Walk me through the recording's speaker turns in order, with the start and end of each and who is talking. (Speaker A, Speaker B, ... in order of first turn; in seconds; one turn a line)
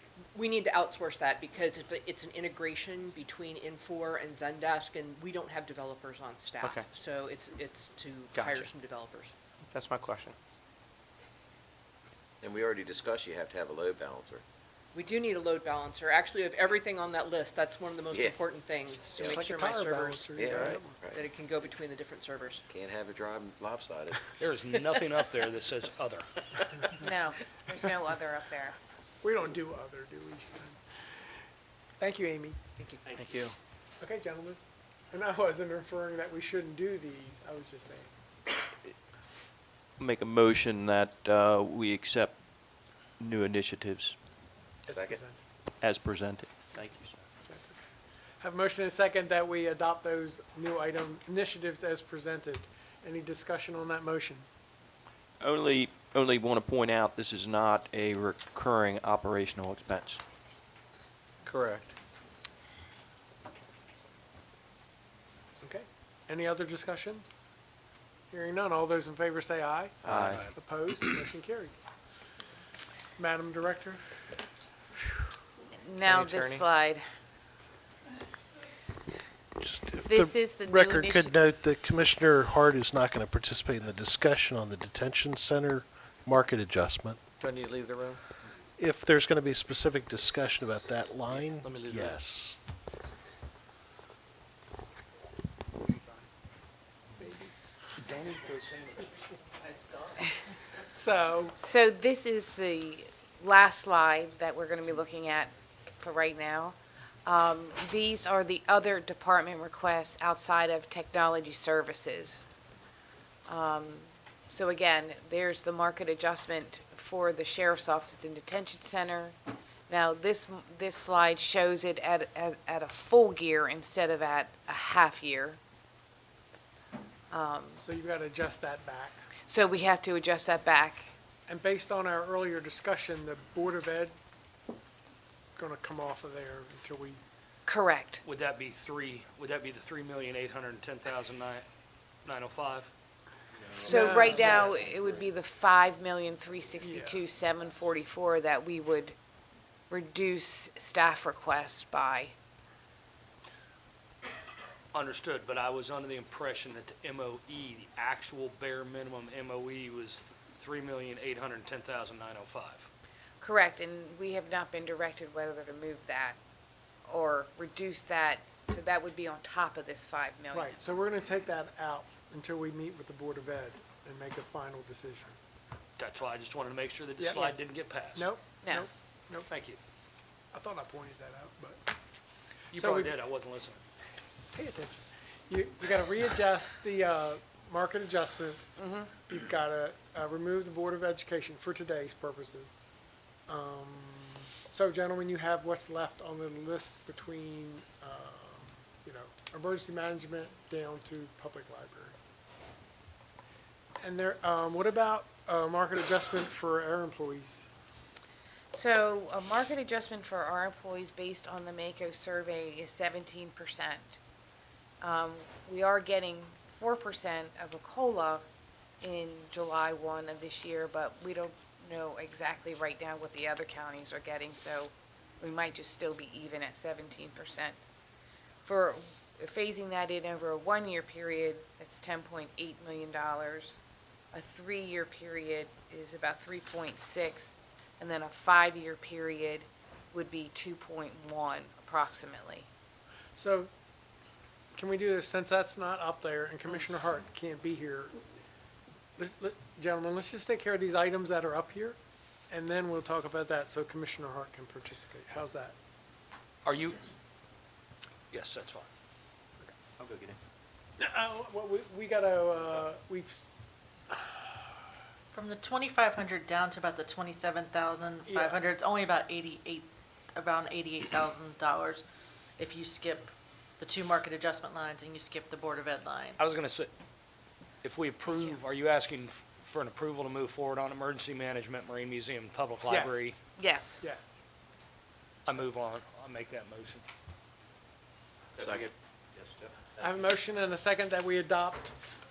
Speaker A: 0.3-9.3
Speaker B: 6.6-6.9
Speaker B: 8.3-8.7
Speaker B: 9.7-10.3
Speaker C: 12.4-14.4
Speaker A: 14.9-20.3
Speaker C: 18.1-18.4
Speaker C: 19.0-19.4
Speaker D: 19.1-21.1
Speaker C: 20.3-21.2
Speaker A: 21.2-22.6
Speaker C: 22.7-24.3
Speaker E: 24.4-26.3
Speaker F: 27.0-28.8
Speaker D: 29.2-30.8
Speaker D: 32.0-32.6
Speaker A: 32.8-33.4
Speaker B: 33.1-33.5
Speaker D: 34.0-34.6
Speaker D: 35.1-38.1
Speaker G: 40.0-44.2
Speaker D: 44.9-45.4
Speaker C: 44.9-45.2
Speaker G: 45.8-46.7
Speaker D: 47.5-47.8
Speaker D: 48.4-54.5
Speaker G: 55.4-60.2
Speaker B: 61.5-61.9
Speaker D: 65.6-67.2
Speaker D: 68.3-71.8
Speaker G: 70.1-70.5
Speaker D: 73.2-74.2
Speaker F: 75.8-77.0
Speaker B: 76.0-76.6
Speaker H: 79.6-87.2
Speaker F: 80.0-81.3
Speaker B: 87.4-88.2
Speaker H: 88.8-92.6
Speaker B: 91.6-92.1
Speaker D: 95.9-96.2
Speaker D: 97.2-97.5
Speaker E: 98.0-99.1
Speaker D: 100.9-101.6
Speaker F: 101.6-112.4
Speaker F: 113.5-119.3
Speaker F: 119.9-125.6
Speaker F: 127.3-127.8
Speaker D: 127.8-129.3
Speaker F: 129.5-131.1
Speaker D: 131.5-134.2
Speaker D: 135.5-137.2
Speaker F: 137.7-138.2
Speaker E: 138.2-141.7
Speaker E: 142.2-142.9
Speaker D: 143.8-144.7
Speaker F: 143.8-149.2
Speaker C: 144.7-145.1
Speaker D: 146.8-147.2
Speaker F: 149.9-152.3
Speaker E: 154.9-162.9
Speaker F: 163.4-166.4
Speaker F: 167.1-170.8
Speaker D: 170.5-175.4
Speaker E: 176.0-178.3
Speaker D: 177.2-177.5
Speaker D: 178.2-179.5
Speaker F: 178.6-178.9
Speaker E: 179.5-179.8
Speaker D: 180.5-181.8
Speaker E: 182.7-183.8
Speaker D: 182.7-183.2
Speaker D: 184.5-192.8
Speaker F: 188.8-189.1
Speaker D: 193.5-202.2
Speaker D: 204.0-207.7
Speaker F: 208.7-214.2
Speaker F: 215.0-218.4
Speaker F: 219.0-227.8
Speaker F: 228.7-233.8
Speaker F: 234.3-242.7
Speaker D: 243.4-243.7
Speaker D: 244.8-248.2
Speaker D: 249.2-252.0
Speaker D: 252.5-255.8
Speaker E: 256.6-257.0
Speaker E: 258.3-258.9
Speaker D: 261.0-263.4
Speaker I: 265.3-272.1
Speaker D: 268.3-268.6
Speaker I: 272.6-276.4
Speaker E: 276.4-276.9
Speaker E: 277.8-283.4
Speaker F: 278.3-278.6
Speaker D: 282.9-283.4
Speaker F: 283.6-284.0
Speaker D: 284.0-284.4
Speaker E: 285.5-287.0
Speaker C: 288.6-288.9
Speaker D: 290.0-291.9